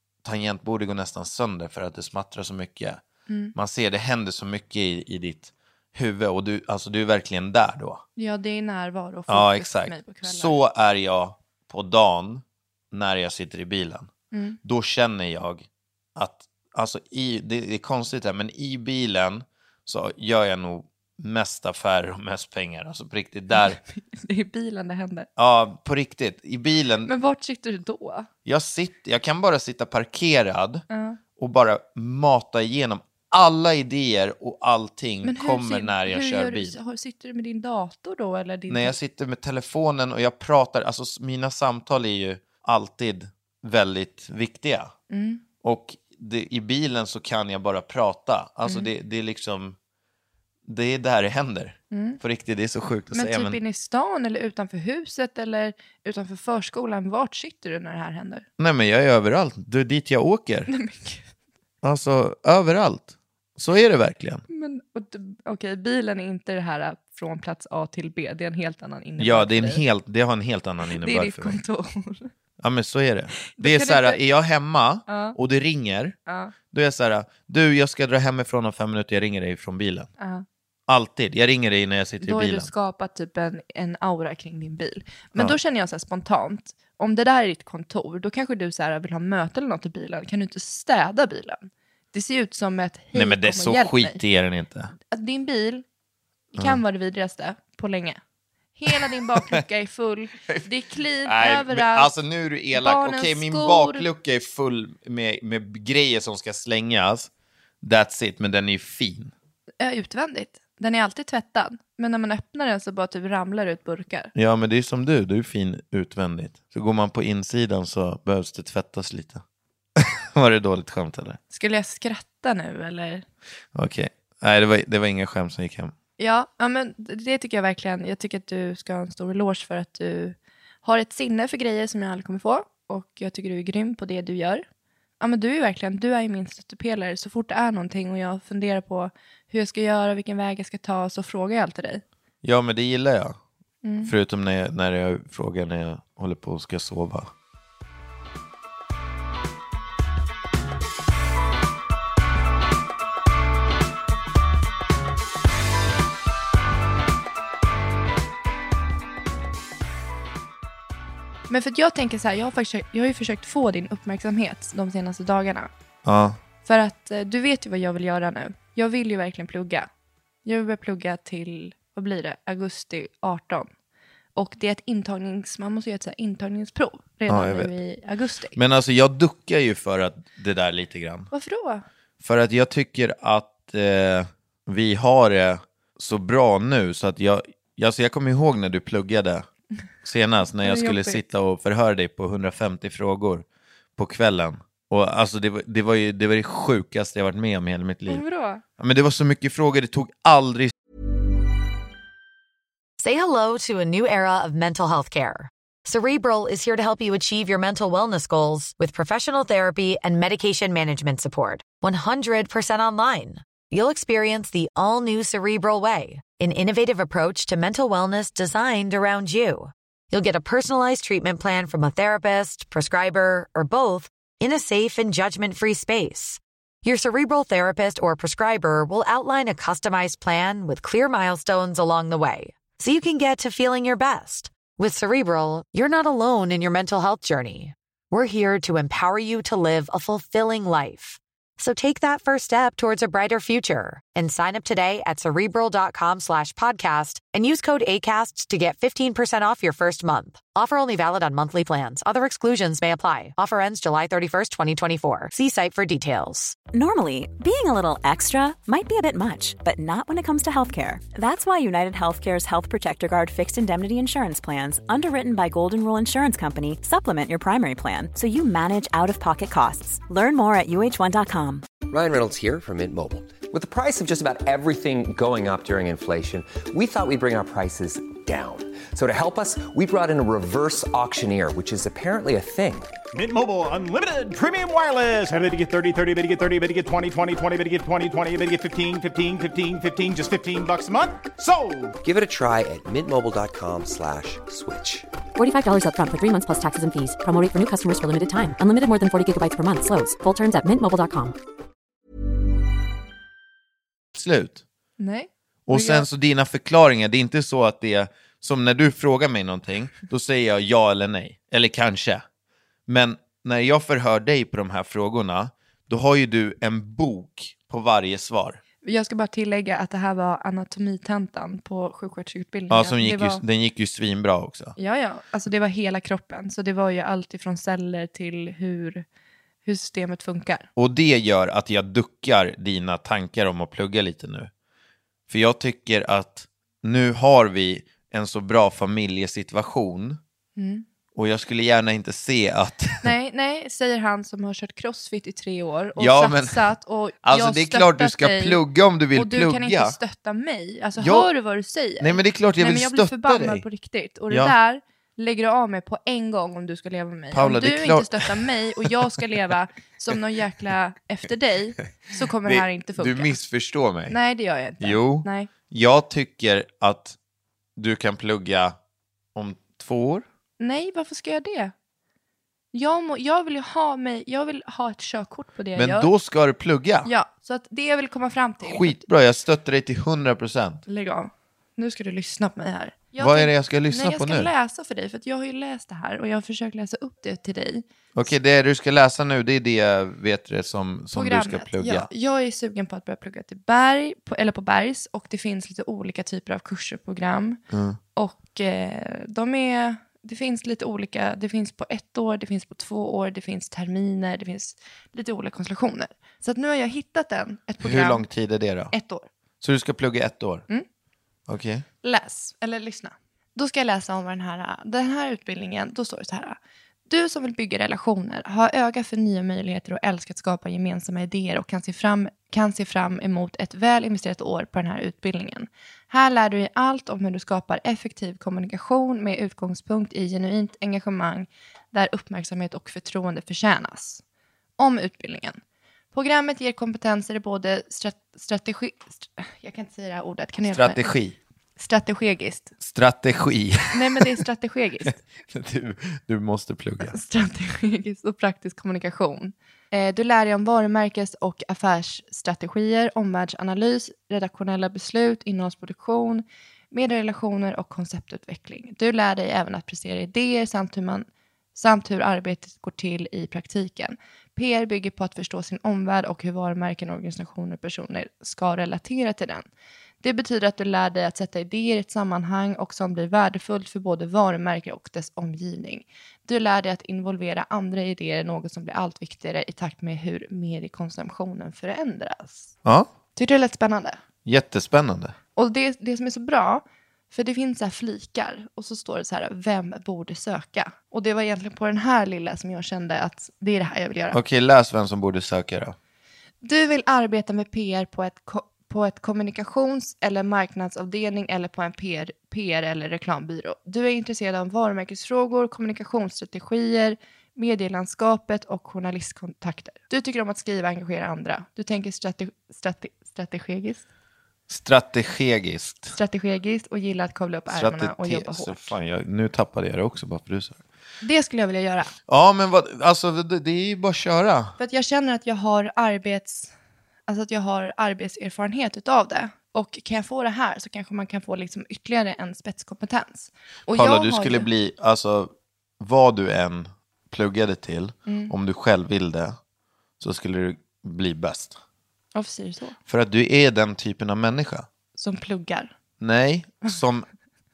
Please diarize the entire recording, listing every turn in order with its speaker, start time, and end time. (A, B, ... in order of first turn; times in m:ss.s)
0:00.2-0:03.0 A
0:03.3-0:03.5 B
0:03.5-0:08.0 A
0:08.2-0:10.5 B
0:09.3-0:14.1 A
0:14.3-0:14.6 B
0:14.6-0:23.8 A
0:23.5-0:25.3 B
0:25.4-0:27.1 A
0:27.0-0:28.3 B
0:28.4-0:30.8 A
0:30.9-0:31.2 B
0:31.4-0:36.8 A
0:35.2-0:39.0 B
0:38.7-0:44.9 A
0:45.1-0:45.4 B
0:45.6-0:49.8 A
0:50.6-0:53.6 A
0:51.9-0:52.2 B
0:53.1-0:58.4 B
0:58.6-1:00.7 A
1:00.7-1:01.3 B
1:01.8-1:04.4 A
1:04.5-1:09.8 B
1:09.2-1:11.6 A
1:10.8-1:12.3 B
1:12.6-1:16.2 A
1:13.4-1:14.2 B
1:15.1-1:15.4 B
1:16.3-1:16.5 B
1:16.7-1:20.1 A
1:20.2-1:20.4 B
1:20.9-1:22.7 A
1:22.2-1:34.2 B
1:33.1-1:34.9 A
1:35.0-1:35.8 B
1:36.5-1:36.8 A
1:36.6-1:38.2 B
1:38.8-1:42.1 B
1:38.9-1:39.6 A
1:41.2-1:49.3 A
1:42.7-1:44.0 B
1:49.8-1:54.3 B
1:54.3-1:59.4 A
2:00.0-2:01.4 A
2:01.5-2:03.2 B
2:03.7-2:05.9 A
2:06.2-2:14.6 B
2:15.2-2:22.0 B
2:22.4-2:23.4 A
2:23.8-2:24.1 B
2:24.0-2:27.3 A
2:41.5-2:45.7 B
2:46.0-2:46.4 A
2:46.6-2:49.9 B
2:50.4-2:53.7 B
2:54.4-2:58.6 B
2:57.3-2:57.7 A
2:58.5-3:01.3 A
3:01.3-3:01.8 B
3:02.2-3:09.4 A
3:10.0-3:13.4 A
3:10.4-3:11.2 B
3:14.0-3:18.2 A
3:18.1-3:18.6 B
3:18.8-3:20.7 A
3:23.0-4:16.6 C
4:16.7-4:31.6 D
4:31.9-4:42.9 E
4:43.1-4:52.0 F
4:52.0-4:55.1 E
4:55.3-5:01.4 G
5:04.1-5:04.6 A
5:05.0-5:06.1 B
5:05.7-5:12.2 A
5:12.9-5:18.6 A
5:18.8-5:23.4 B
5:22.7-5:24.8 A
5:24.8-5:29.0 B
5:29.6-5:30.7 B
5:30.8-5:34.5 A
5:35.3-5:40.2 A
5:40.6-5:40.8 B
5:41.1-5:43.1 A
5:43.0-6:03.4 B
5:46.0-5:46.6 A
5:47.2-5:50.0 A
5:51.0-5:51.3 A
5:52.0-5:53.6 A
5:57.3-5:58.9 A
6:02.4-6:04.2 A
6:04.1-6:05.5 B
6:04.8-6:07.2 A
6:07.8-6:08.8 A
6:09.3-6:10.2 A
6:10.6-6:11.7 B
6:12.7-6:16.1 B
6:15.7-6:17.1 A
6:17.0-6:19.0 B
6:18.6-6:20.8 A
6:20.9-6:27.8 B
6:23.2-6:24.5 A
6:28.1-6:32.1 A
6:31.1-6:37.6 B
6:37.7-6:38.0 A
6:38.1-6:48.2 B
6:47.8-6:48.9 A
6:48.9-6:49.3 B
6:49.6-6:50.6 A
6:51.5-6:51.8 A
6:52.0-7:14.2 B
7:14.8-7:15.6 B
7:16.1-7:21.1 B
7:20.6-7:21.4 A
7:21.8-7:22.7 B
7:22.8-7:24.4 A
7:23.9-7:25.2 B
7:25.0-7:27.2 A
7:27.0-7:49.6 B
7:50.2-8:02.7 B
8:03.4-8:04.2 B
8:04.4-8:05.3 A
8:05.6-8:14.4 B
8:14.3-8:16.0 A
8:16.6-8:34.0 B
8:34.7-8:36.2 A
8:36.1-8:38.9 B
8:37.7-8:40.8 A
8:41.2-8:42.1 B
8:42.3-8:44.8 A
8:44.8-8:46.7 B
8:47.3-8:54.7 B
8:53.9-8:59.6 A
8:58.2-8:58.5 B
9:00.2-9:01.8 A
9:02.3-9:03.0 B
9:03.0-9:04.9 A
9:05.2-9:05.9 B
9:06.2-9:07.3 A